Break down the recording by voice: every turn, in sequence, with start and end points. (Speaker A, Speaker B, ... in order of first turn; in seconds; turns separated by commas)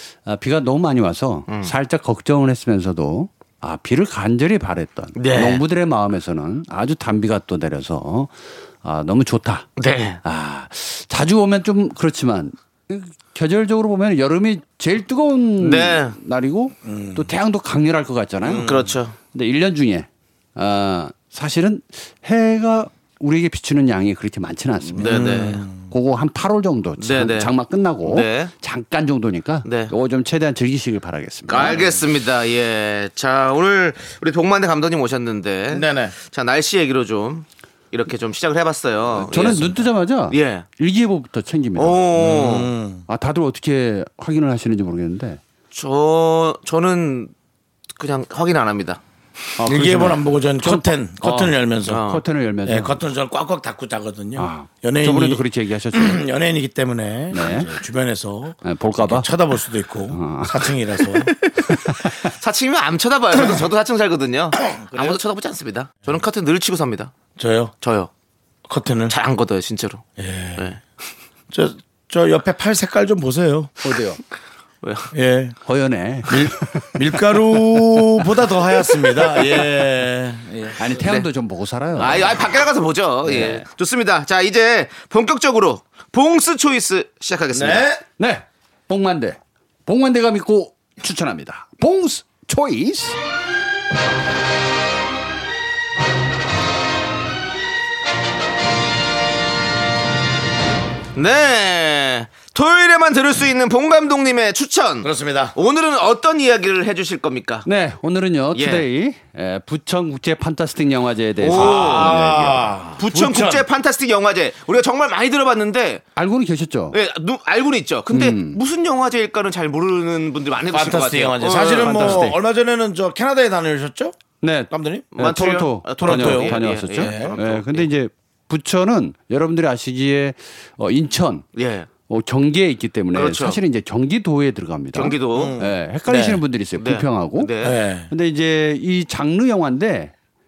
Speaker A: 0.2-9.7, Speaker B: 5.2-5.6, Speaker B: 9.8-10.2, Speaker A: 10.2-32.0, Speaker B: 15.6-16.1, Speaker C: 16.8-17.3, Speaker C: 18.4-18.9, Speaker B: 18.5-19.1, Speaker B: 25.0-25.6, Speaker C: 25.0-25.9, Speaker B: 27.0-27.5, Speaker B: 28.0-28.5, Speaker B: 29.6-29.9, Speaker B: 31.5-40.6, Speaker C: 35.7-36.1, Speaker A: 39.1-42.0, Speaker B: 41.8-42.7, Speaker C: 42.2-43.0, Speaker A: 43.1-45.4, Speaker B: 45.7-47.3, Speaker B: 48.0-49.0, Speaker A: 49.6-52.9, Speaker C: 49.6-52.1, Speaker B: 51.9-52.2, Speaker C: 52.6-61.3, Speaker A: 54.4-56.2, Speaker A: 57.3-57.7, Speaker A: 58.6-59.3, Speaker A: 60.1-60.6, Speaker A: 61.7-62.1, Speaker B: 62.2-67.1, Speaker C: 64.7-65.2, Speaker C: 67.3-67.7, Speaker B: 67.8-68.1, Speaker C: 68.7-69.1, Speaker B: 69.1-70.0, Speaker C: 70.2-70.7, Speaker C: 71.5-73.7, Speaker A: 73.8-74.2, Speaker B: 74.8-75.1, Speaker C: 75.1-75.6, Speaker A: 75.6-77.8, Speaker C: 76.3-80.8, Speaker A: 80.8-82.4, Speaker B: 81.0-81.3, Speaker B: 82.0-87.9, Speaker A: 83.2-83.6, Speaker C: 87.5-88.0, Speaker A: 88.2-93.2, Speaker B: 101.1-107.7, Speaker C: 105.0-105.5, Speaker A: 107.7-112.8, Speaker B: 108.5-108.8, Speaker B: 111.4-112.1, Speaker C: 111.5-113.7, Speaker B: 113.0-116.0, Speaker A: 116.2-117.0, Speaker B: 116.9-122.3, Speaker A: 118.1-118.6, Speaker C: 120.7-125.1, Speaker A: 121.6-122.4, Speaker A: 124.4-131.5, Speaker B: 125.1-127.9, Speaker C: 126.0-127.4, Speaker B: 131.5-131.9, Speaker A: 132.1-137.5, Speaker B: 133.1-133.6, Speaker B: 134.9-135.6, Speaker C: 135.3-136.4, Speaker B: 136.8-137.8, Speaker C: 137.6-138.1, Speaker A: 138.1-140.1